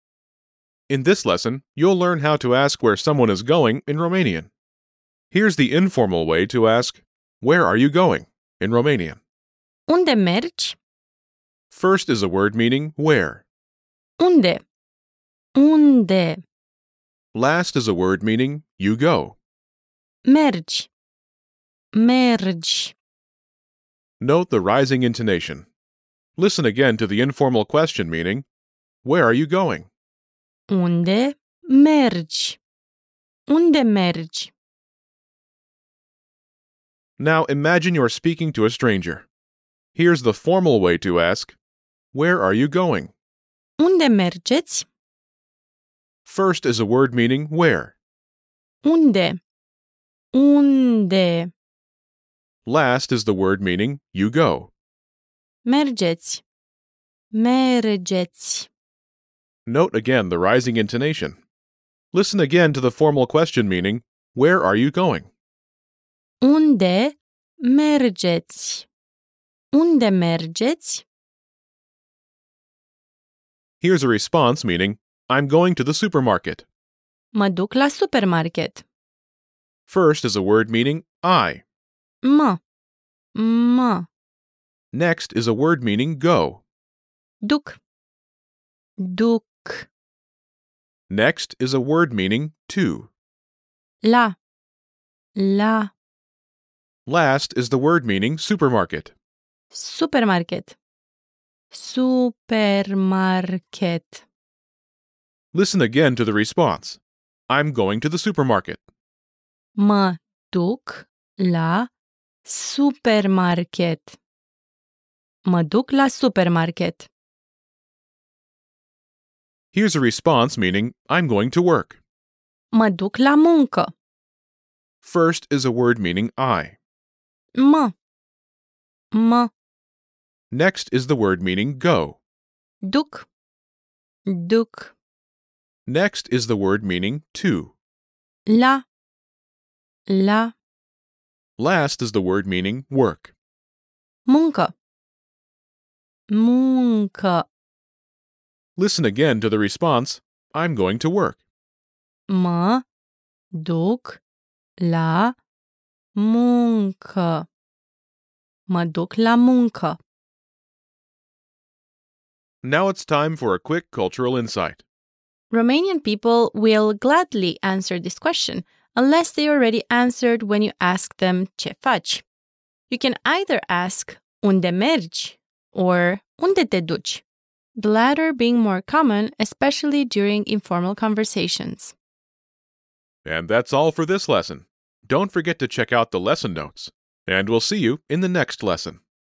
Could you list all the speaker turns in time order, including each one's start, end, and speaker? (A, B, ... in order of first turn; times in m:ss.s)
0:00.9-0:04.5 A
0:05.3-0:09.2 A
0:09.9-0:10.8 B
0:11.7-0:13.4 A
0:14.2-0:14.6 B
0:15.6-0:16.4 B
0:17.3-0:19.4 A
0:20.2-0:20.9 B
0:21.9-0:23.0 B
0:24.2-0:25.7 A
0:26.4-0:28.5 A
0:29.0-0:29.9 A
0:30.7-0:32.6 B
0:33.5-0:34.5 B
0:37.2-0:39.3 A
0:39.9-0:41.6 A
0:42.1-0:43.1 A
0:43.8-0:44.9 B
0:46.2-0:48.0 A
0:48.8-0:49.4 B
0:50.3-0:51.5 B
0:52.6-0:54.7 A
0:55.6-0:56.4 B
0:57.3-0:58.7 B
0:59.6-1:01.4 A
1:02.1-1:05.3 A
1:06.4-1:08.9 B
1:09.7-1:11.0 B
1:13.8-1:16.6 A
1:17.3-1:18.8 B
1:19.9-1:21.6 A
1:22.2-1:22.6 B
1:23.3-1:24.1 B
1:24.9-1:26.6 A
1:27.4-1:27.8 B
1:29.0-1:29.9 B
1:31.1-1:33.1 A
1:34.0-1:34.4 B
1:35.4-1:35.9 B
1:37.0-1:39.1 A
1:39.7-1:40.8 B
1:41.7-1:44.2 B
1:45.5-1:48.8 A
1:49.8-1:51.9 B
1:52.4-1:54.2 B
1:55.4-1:57.1 B
1:59.7-2:02.0 A
2:02.7-2:03.9 B
2:05.0-2:06.8 A
2:07.5-2:07.9 B
2:09.1-2:09.5 B
2:10.5-2:12.2 A
2:12.8-2:13.3 B
2:14.3-2:15.0 B
2:15.8-2:17.8 A
2:18.5-2:18.8 B
2:20.1-2:20.5 B
2:21.6-2:23.3 A
2:24.3-2:24.7 B
2:26.3-2:27.5 B
2:28.8-2:31.4 A
2:32.3-2:32.8 B
2:33.5-2:34.2 B
2:34.8-2:35.4 B
2:36.1-2:37.5 B
2:38.7-2:40.0 B
2:42.6-2:44.8 A
2:45.5-2:52.2 B
2:52.9-2:57.2 B
2:57.8-3:01.9 B
3:03.2-3:09.0 A